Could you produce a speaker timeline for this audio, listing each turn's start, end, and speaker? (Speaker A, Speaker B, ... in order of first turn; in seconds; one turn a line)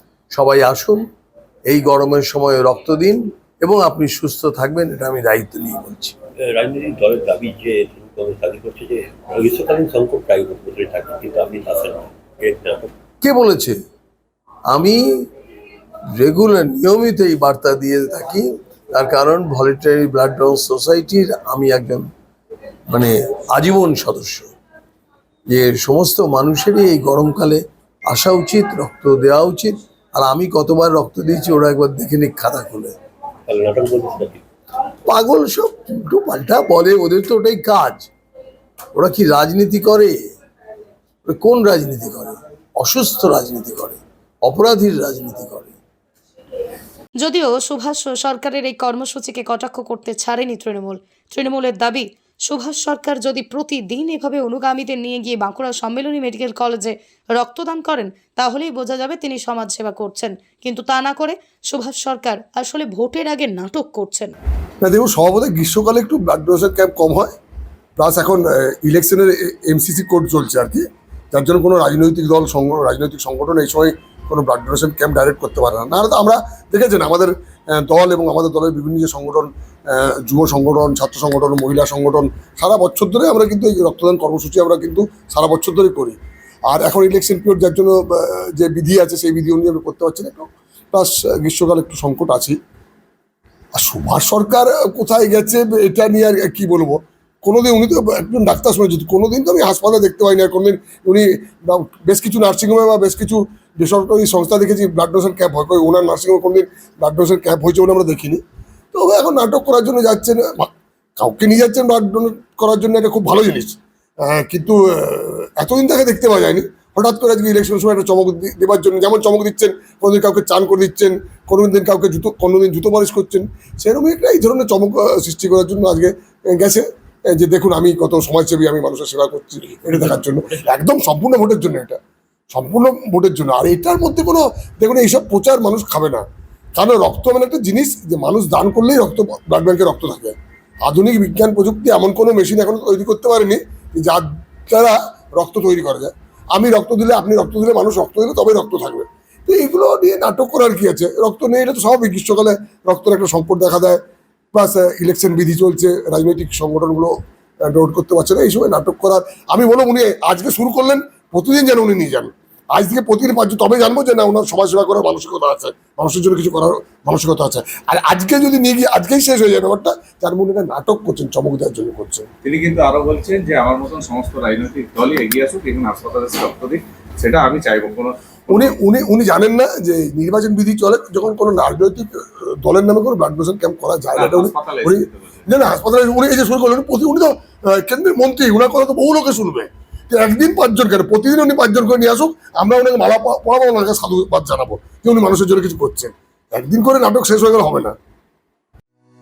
Speaker A: 0.3-1.0
Speaker A: 1.7-6.1
Speaker B: 6.4-12.9
Speaker A: 13.2-13.7
Speaker A: 14.7-15.0
Speaker A: 16.2-22.1
Speaker A: 22.9-24.5
Speaker A: 25.5-32.9
Speaker B: 33.5-34.4
Speaker A: 35.0-38.1
Speaker A: 38.9-40.1
Speaker A: 41.3-45.8
Speaker C: 47.2-64.3
Speaker D: 64.8-67.3
Speaker D: 68.0-86.2
Speaker D: 86.7-92.6
Speaker D: 93.8-108.4
Speaker D: 108.9-132.0
Speaker D: 132.5-136.2
Speaker D: 136.8-154.0
Speaker D: 154.5-172.3
Speaker E: 172.4-178.6
Speaker D: 178.5-197.9
Speaker E: 184.1-185.4